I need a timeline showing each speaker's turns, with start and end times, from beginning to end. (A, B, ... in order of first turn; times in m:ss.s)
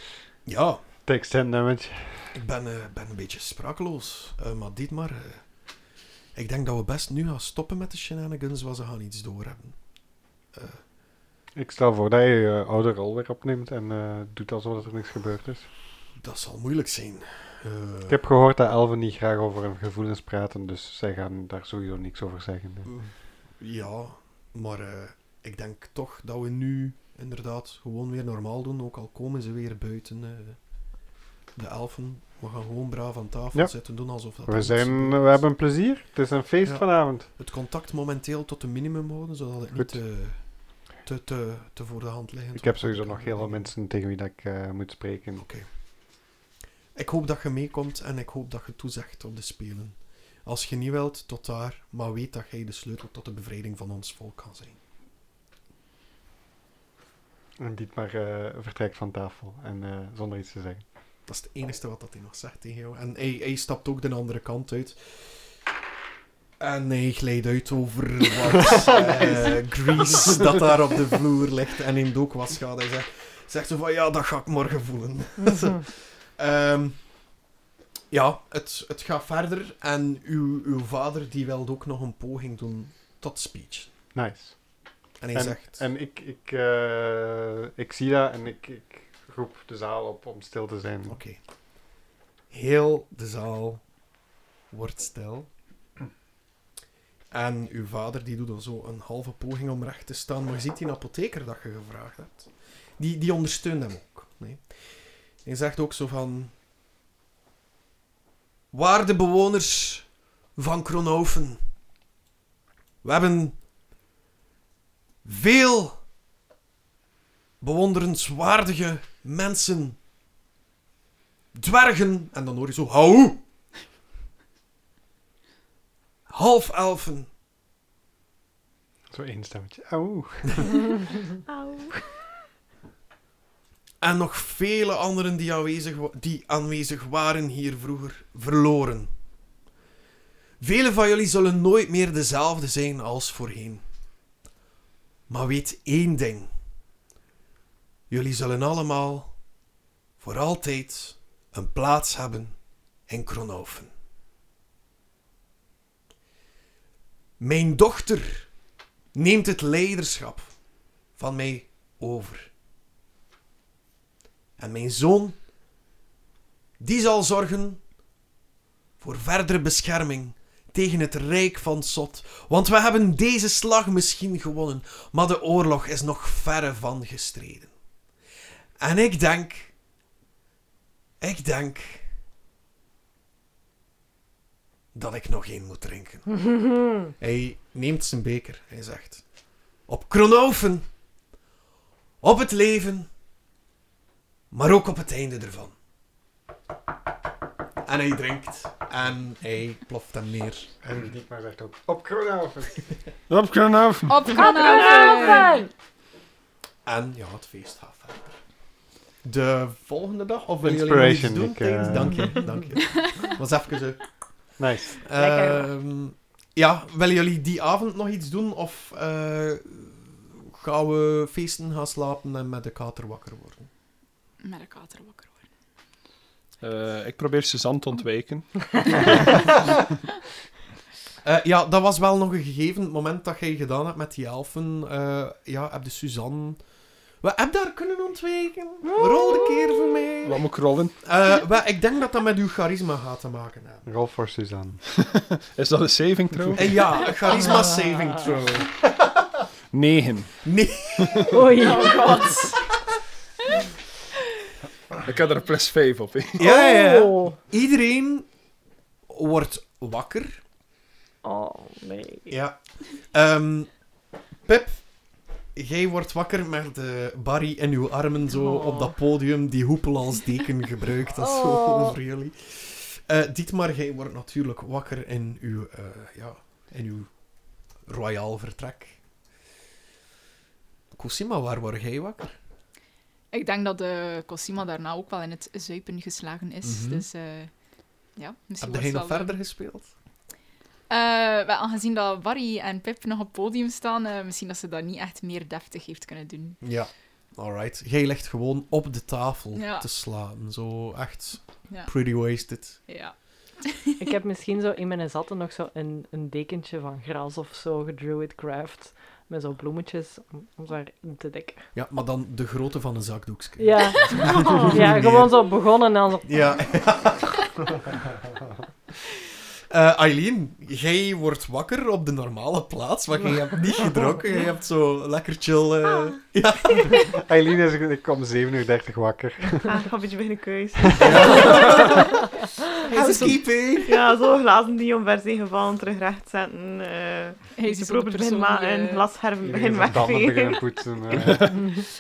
0:00.5-0:00.8 A
0:01.0-0:02.2 B
0:02.3-0:05.5 A
0:06.4-0:09.8 A
0:10.5-0:10.8 A
0:11.6-0:15.7 B
0:16.2-0:18.2 A
0:18.1-0:22.9 B
0:22.9-0:30.6 A
0:31.5-0:35.4 A
0:33.5-0:37.3 B
0:36.6-0:43.7 A
0:42.6-0:45.4 B
0:45.4-0:45.7 A
0:47.0-0:54.8 A
0:57.6-1:00.8 B
1:01.3-1:05.2 A
1:06.6-1:17.0 A
1:08.7-1:09.6 B
1:18.1-1:23.9 A
1:24.2-1:24.6 B
1:25.2-1:25.8 A
1:25.3-1:31.2 B
1:31.1-1:31.4 A
1:32.5-1:33.9 A
1:34.7-1:35.5 A
1:37.3-1:44.6 A
1:45.4-1:46.5 A
1:48.7-1:51.6 A
1:53.0-1:53.6 A
1:55.2-1:56.0 A
1:57.6-2:00.0 A
2:01.5-2:03.4 A
2:06.3-2:07.3 A
2:09.1-2:10.7 B
2:11.5-2:11.9 C
2:14.0-2:19.1 A
2:20.6-2:23.8 A
2:25.3-2:26.5 A
2:28.1-2:29.4 A
2:30.2-2:32.6 A
2:33.1-2:33.9 A
2:37.4-2:38.5 A
2:39.1-2:40.6 A
2:41.2-2:42.5 A
2:44.6-2:45.4 A
2:46.8-2:47.8 A
2:49.0-2:57.7 A
2:58.8-2:59.8 A
3:01.2-3:02.1 A
3:04.9-3:06.4 A
3:07.2-3:09.2 A
3:09.9-3:10.9 A
3:12.2-3:13.1 A
3:14.5-3:15.7 A
3:17.8-3:20.7 A
3:20.8-3:22.9 B
3:23.3-3:24.4 D
3:24.1-3:25.6 E
3:24.3-3:25.7 F
3:24.4-3:25.6 C
3:26.9-3:28.4 A
3:29.2-3:34.1 A
3:30.6-3:32.4 B
3:34.6-3:35.0 B
3:35.0-3:43.7 A
3:35.2-3:35.7 F
3:44.4-3:45.4 E
3:46.6-3:49.8 D
3:51.2-3:56.6 A
3:57.2-4:00.4 A
4:00.2-4:01.0 D
4:01.0-4:03.9 A
4:03.8-4:04.8 B
4:05.0-4:06.9 D
4:06.6-4:08.8 A
4:09.7-4:10.5 D
4:10.4-4:11.4 A
4:11.0-4:11.4 D
4:11.3-4:12.5 F
4:11.5-4:12.7 E
4:15.0-4:16.5 D
4:16.4-4:18.3 A
4:16.4-4:17.4 F
4:19.1-4:20.4 A
4:21.2-4:22.3 F
4:22.3-4:23.8 A
4:24.4-4:24.9 A
4:25.5-4:37.1 A
4:28.3-4:28.9 F
4:31.2-4:32.0 F
4:37.9-4:39.0 A
4:40.9-4:42.3 A
4:43.3-4:47.5 E
4:46.6-4:47.0 A
4:48.2-4:49.4 E
4:48.6-4:49.9 A
4:50.9-4:56.6 E
4:56.6-5:02.8 A
4:59.6-4:59.8 E
5:02.9-5:04.0 E
5:04.0-5:11.7 F
5:11.7-5:15.4 A
5:13.6-5:16.6 F
5:14.3-5:14.8 C
5:16.2-5:17.5 A
5:19.7-5:27.1 A
5:27.1-5:29.8 B
5:29.7-5:31.9 C
5:30.9-5:31.3 B
5:31.0-5:32.1 A
5:32.9-5:34.0 A
5:32.9-5:33.4 E
5:33.9-5:40.6 C
5:37.5-5:39.1 E
5:39.4-5:41.5 B
5:41.1-5:41.6 D